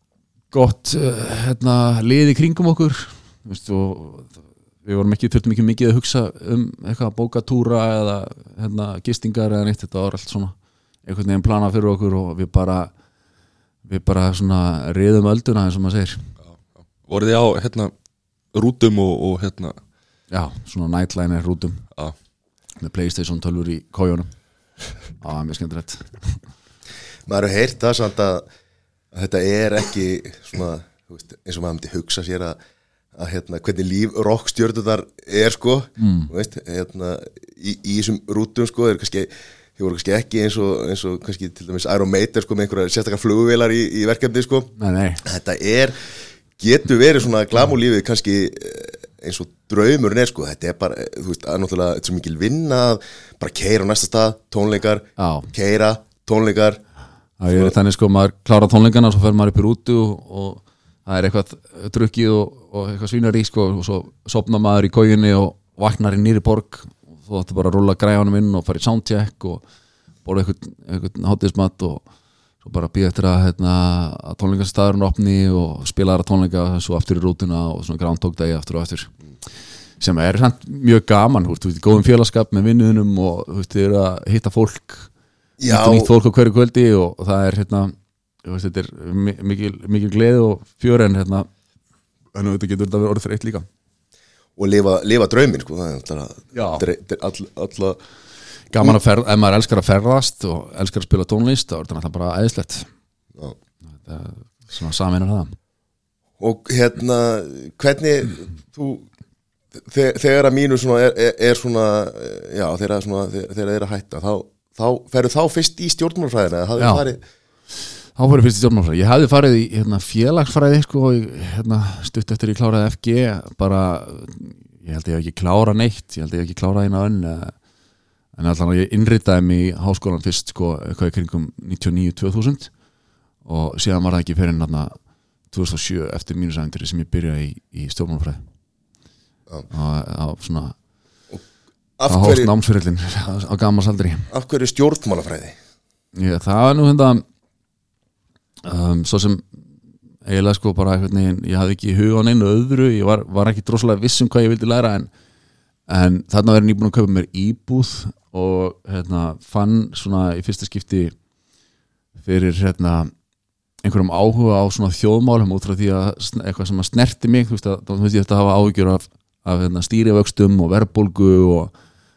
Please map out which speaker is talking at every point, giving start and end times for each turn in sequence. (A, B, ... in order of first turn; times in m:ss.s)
0:00.5-0:10.5 A
0:11.0-0:12.9 A
0:13.8-0:16.3 A
0:17.0-0:17.9 B
0:18.5-0:19.8 B
0:20.3-0:21.8 A
0:22.8-0:24.3 A
0:25.2-0:26.4 A
0:27.3-0:28.4 C
0:29.1-0:32.6 C
0:33.1-0:44.7 C
0:36.0-0:36.3 A
0:44.8-0:45.2 A
0:45.2-0:56.8 C
0:55.2-0:55.5 A
0:57.4-1:09.6 A
0:57.5-0:57.7 C
1:10.2-1:12.0 A
1:12.6-1:19.1 A
1:20.0-1:25.1 A
1:25.6-1:26.1 C
1:25.6-1:31.5 A
1:32.3-1:33.6 A
1:34.6-1:38.0 C
1:36.5-1:36.9 A
1:38.7-1:42.9 A
1:44.0-1:45.5 A
1:46.4-1:49.0 C
1:49.8-1:57.2 C
1:56.8-1:57.0 A
1:58.2-2:07.5 A
2:08.4-2:12.7 A
2:13.4-2:14.9 A
2:15.5-2:18.4 A
2:19.7-2:20.7 A
2:22.0-2:22.5 C
2:22.1-2:24.3 A
2:24.3-2:25.5 C
2:26.2-2:27.2 A
2:28.6-2:29.5 A
2:30.2-2:35.1 A
2:35.9-2:41.1 A
2:42.2-2:43.1 A
2:43.8-2:51.7 A